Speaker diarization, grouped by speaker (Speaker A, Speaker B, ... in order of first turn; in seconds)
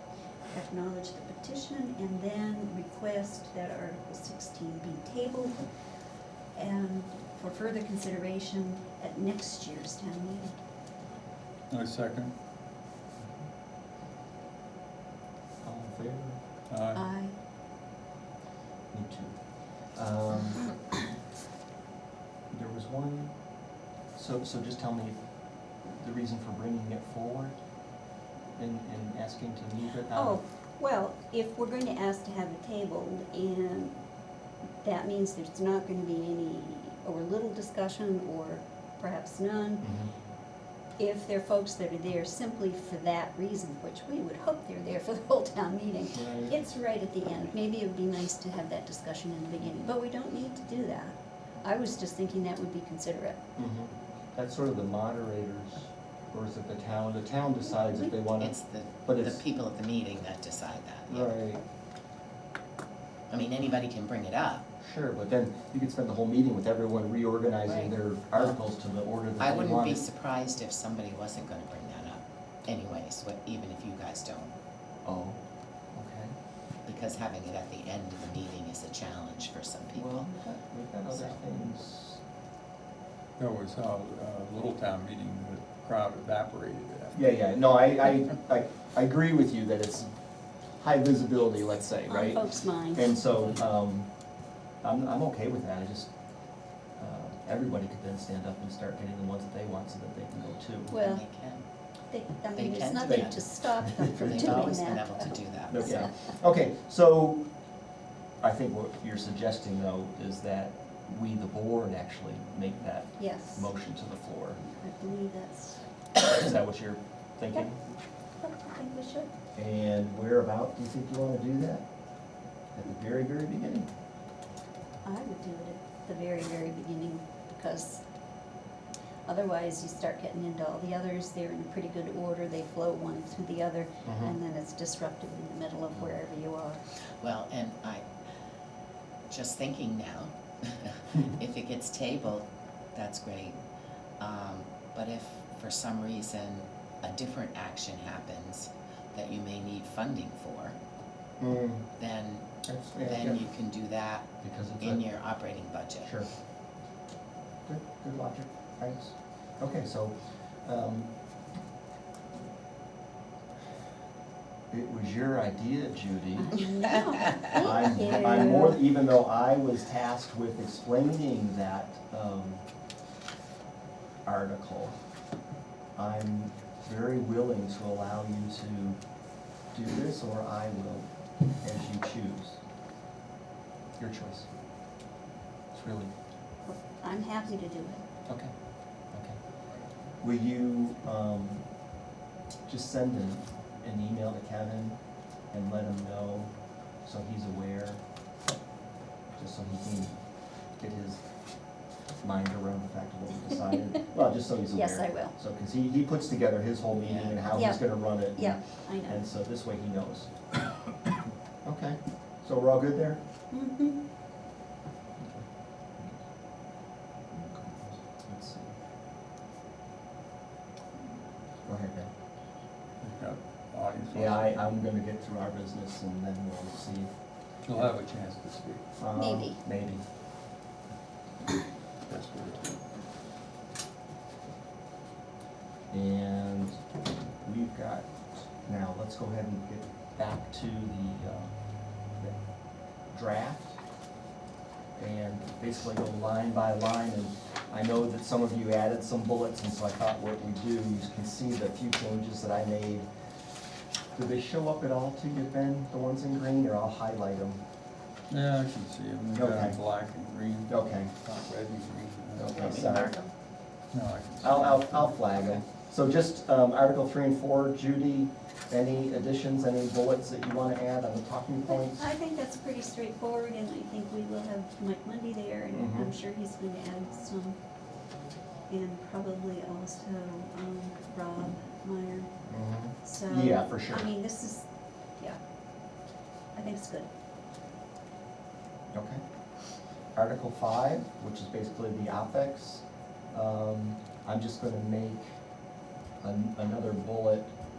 Speaker A: 0.5-5.7, 6.5-10.6, 16.9-17.4, 30.1-33.9, 34.8-39.9, 41.0-53.4, 57.8-58.1, 92.1-93.1, 100.9-101.2, 102.1-106.1, 113.2-113.7, 114.6-115.8, 118.4-119.3, 125.0-128.0, 129.2-136.8, 166.4-168.8, 186.7-188.0, 204.7-205.3, 207.5-209.2, 213.5-214.0, 229.1-229.6, 271.7-277.6, 278.7-282.3, 283.0-284.6, 286.5-287.1
Speaker B: 11.7-12.3, 16.7-17.1, 83.4-87.2, 223.0-224.6, 227.7-228.8, 232.0-232.8, 258.3-262.9, 263.9-265.3
Speaker C: 15.6-16.4, 18.9-19.4, 19.9-20.8, 22.5-23.3, 24.1-25.2, 25.8-27.6, 28.6-30.4, 39.8-40.1, 46.1-46.5, 53.6-58.5, 59.0-59.4, 61.1-61.6, 64.8-70.0, 75.0-75.4, 75.9-76.3, 79.9-82.2, 87.1-90.1, 90.8-94.1, 94.8-96.1, 97.0-100.9, 103.0-104.8, 105.7-107.4, 108.4-114.6, 116.2-117.8, 119.6-121.8, 122.7-123.9, 134.0-134.3, 151.4-151.9, 152.7-153.4, 154.4-155.0, 156.0-156.3, 157.7-161.1, 164.7-166.6, 167.3-172.6, 174.2-175.0, 175.9-179.0, 179.7-181.1, 181.6-182.6, 184.0-184.5, 185.7-186.1, 189.1-189.4, 190.2-191.6, 192.7-195.0, 195.5-196.5, 197.0-198.0, 199.3-200.2, 200.8-201.2, 202.2-210.3, 211.6-213.2, 217.3-218.8, 221.6-222.1, 224.1-227.1, 229.0-230.0, 235.9-236.8, 237.4-241.6, 242.2-242.4, 243.1-243.8, 244.9-253.1, 254.1-257.6, 259.3-259.8, 260.7-261.1, 262.4-263.1, 264.4-272.1, 275.7-276.1, 282.5-284.1, 288.9-289.2, 290.1-295.3, 296.2-297.5
Speaker D: 58.4-61.3, 63.3-64.6, 67.7-68.5, 69.4-74.5, 76.8-80.3, 81.1-81.4, 100.9-101.6, 102.5-106.1, 137.2-138.0, 139.3-143.6, 144.2-150.8, 152.0-152.5, 153.0-156.1, 207.0-207.4, 262.5-263.3